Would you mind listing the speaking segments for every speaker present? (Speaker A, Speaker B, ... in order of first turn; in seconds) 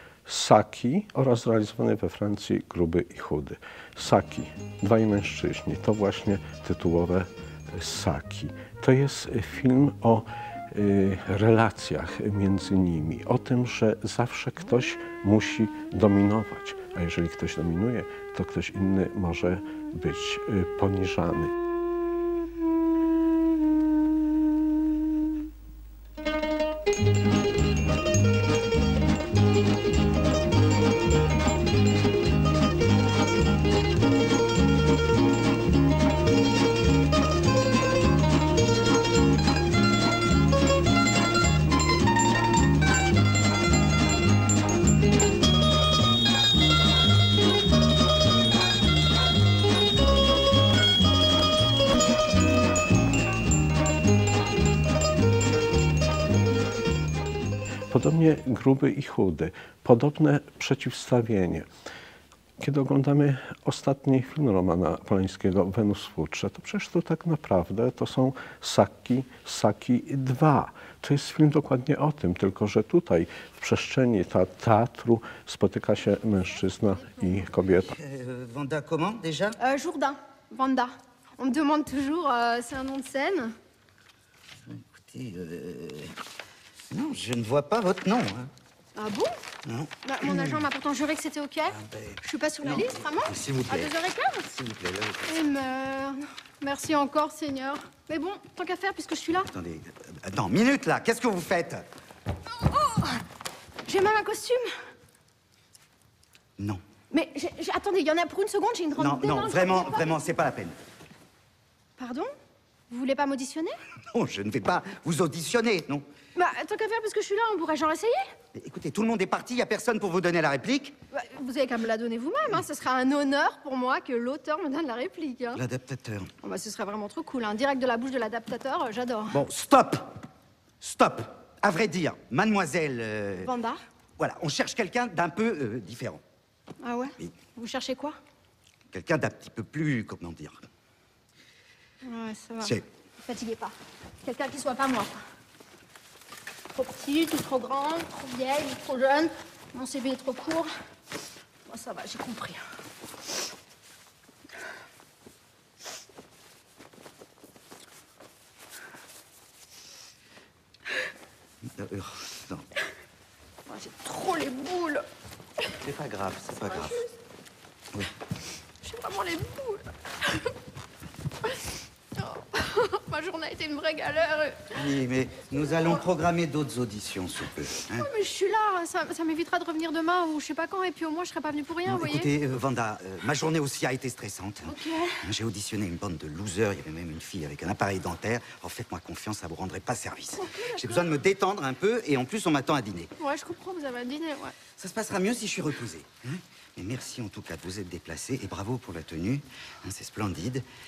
Speaker A: 0.2-21.5, 57.9-61.7, 62.6-77.9
Speaker B: 77.8-79.6, 84.6-86.2, 86.9-88.5, 89.6-90.6, 91.7-93.9, 94.4-95.4, 99.5-101.9, 109.0-110.8, 114.1-116.1, 118.5-121.0, 125.5-126.3, 129.3-130.2, 130.8-133.5, 134.2-136.2, 138.9-140.7, 161.6-162.7, 165.7-167.0, 174.7-178.1, 181.8-193.1, 194.8-200.7
Speaker C: 79.6-83.5, 89.0-89.3, 90.0-94.5, 95.2-99.5, 102.7-103.2, 103.8-104.7, 107.1-110.1, 112.0-112.3, 112.9-113.8, 116.3-118.3, 121.1-125.6, 126.4-129.4, 133.4-133.8, 136.8-138.2, 142.0-145.2, 146.7-150.7, 151.7-152.6, 163.7-165.1, 168.8-170.5, 172.2-174.8, 177.9-182.3, 184.7-185.3, 190.4-191.1, 193.2-194.6